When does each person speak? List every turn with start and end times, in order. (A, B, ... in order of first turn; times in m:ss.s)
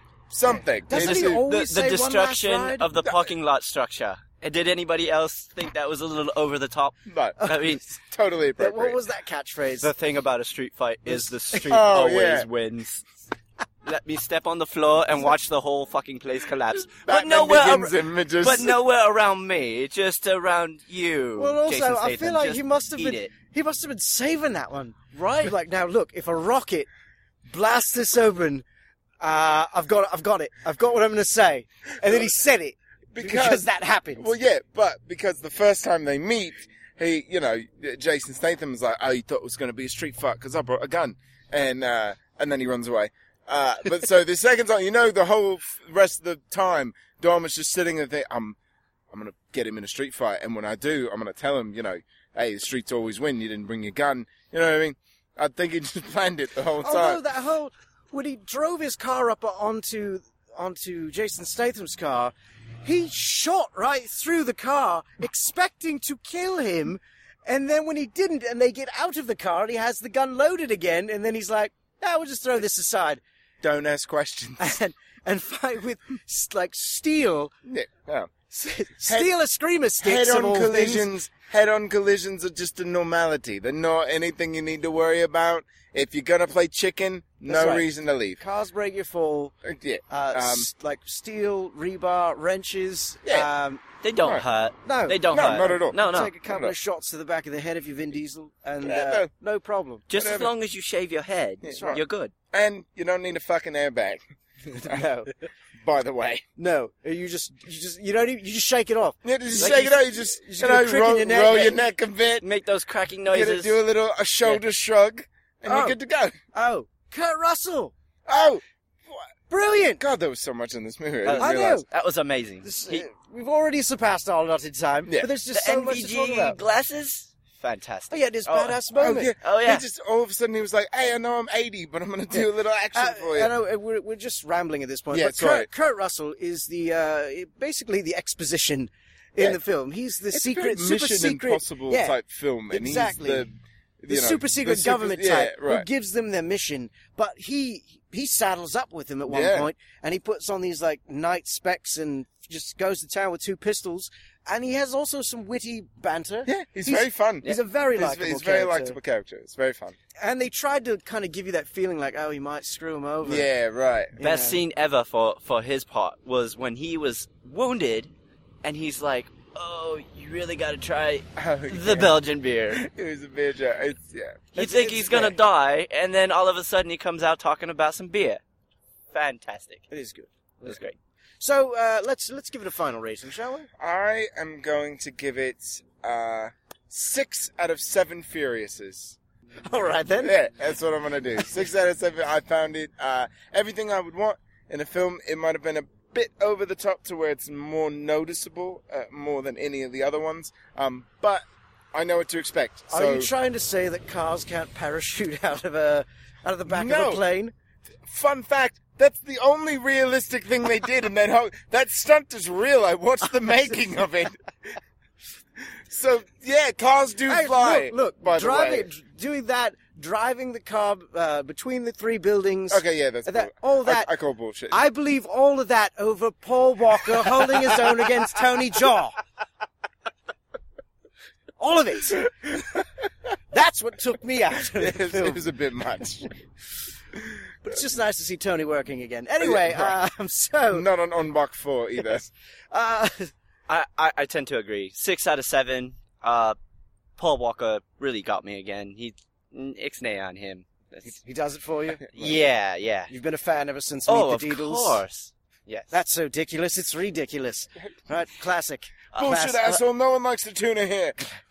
0:00.3-0:01.4 A
0:00.9-0:02.9 B
0:00.9-0:07.8 C
0:07.0-0:09.0 A
0:07.4-0:07.7 B
0:08.6-0:09.9 B
0:09.8-0:13.0 C
0:11.6-0:12.5 A
0:13.8-0:23.3 C
0:16.9-0:18.8 A
0:21.4-0:26.9 B
0:27.5-0:28.6 B
0:29.2-0:34.3 B
0:33.1-0:33.6 A
0:34.2-0:48.6 A
0:49.1-0:57.2 A
0:56.8-1:02.3 B
1:02.8-1:13.2 B
1:13.6-1:14.7 A
1:14.6-1:17.5 B
1:17.6-1:18.3 A
1:18.5-1:21.1 B
1:19.0-1:19.3 A
1:20.0-1:28.4 A
1:27.5-1:29.5 B
1:29.6-1:30.7 A
1:30.1-1:33.8 B
1:34.0-1:36.3 C
1:34.8-1:40.1 B
1:35.3-1:36.8 A
1:38.8-1:39.3 A
1:40.1-1:42.3 C
1:40.1-1:40.5 A
1:41.6-1:44.2 A
1:41.7-1:42.0 B
1:44.6-1:45.3 B
1:45.8-1:46.4 A
1:46.6-1:51.8 B
1:49.2-1:52.4 A
1:52.4-1:53.8 C
1:53.3-1:56.4 A
1:55.6-1:56.0 B
1:56.5-1:57.9 B
1:58.3-1:59.2 A
1:59.5-2:00.0 B
2:00.0-2:01.7 A
2:01.2-2:03.0 C
2:01.4-2:01.9 B
2:02.6-2:06.6 B
2:05.5-2:08.8 C
2:08.1-2:09.3 B
2:08.9-2:13.5 A
2:09.4-2:09.8 C
2:12.3-2:22.2 B
2:15.1-2:15.7 A
2:20.3-2:25.9 A
2:22.7-2:23.5 B
2:24.1-2:39.0 B
2:29.3-2:29.7 A
2:36.4-2:40.0 A
2:40.2-2:43.5 B
2:43.2-2:44.2 A
2:44.2-2:44.6 B
2:44.2-2:48.1 C
2:48.6-2:52.8 C
2:51.4-2:52.1 A
2:52.7-2:54.5 A
2:54.5-2:58.4 C
2:54.6-2:55.4 B
2:59.1-2:59.8 C
2:59.9-3:00.8 B
3:00.6-3:00.9 C
3:01.4-3:03.7 B
3:03.8-3:09.2 A
3:09.7-3:10.3 B
3:10.2-3:23.3 A
3:22.9-3:27.5 B
3:26.7-3:27.2 A
3:28.0-3:34.4 A
3:35.6-3:38.9 A
3:37.3-3:44.1 B
3:42.7-3:44.8 A
3:44.7-3:49.2 B
3:51.6-3:52.6 B
3:53.5-3:55.4 B
3:54.7-3:56.3 A
3:57.6-4:00.8 B
3:59.4-4:00.0 A
4:00.7-4:02.3 A
4:02.7-4:03.3 B
4:03.7-4:06.6 C
4:07.2-4:11.0 C
4:11.0-4:12.4 B
4:12.1-4:13.1 C
4:13.1-4:15.0 B
4:14.1-4:16.0 C
4:15.9-4:19.8 B
4:19.2-4:21.2 A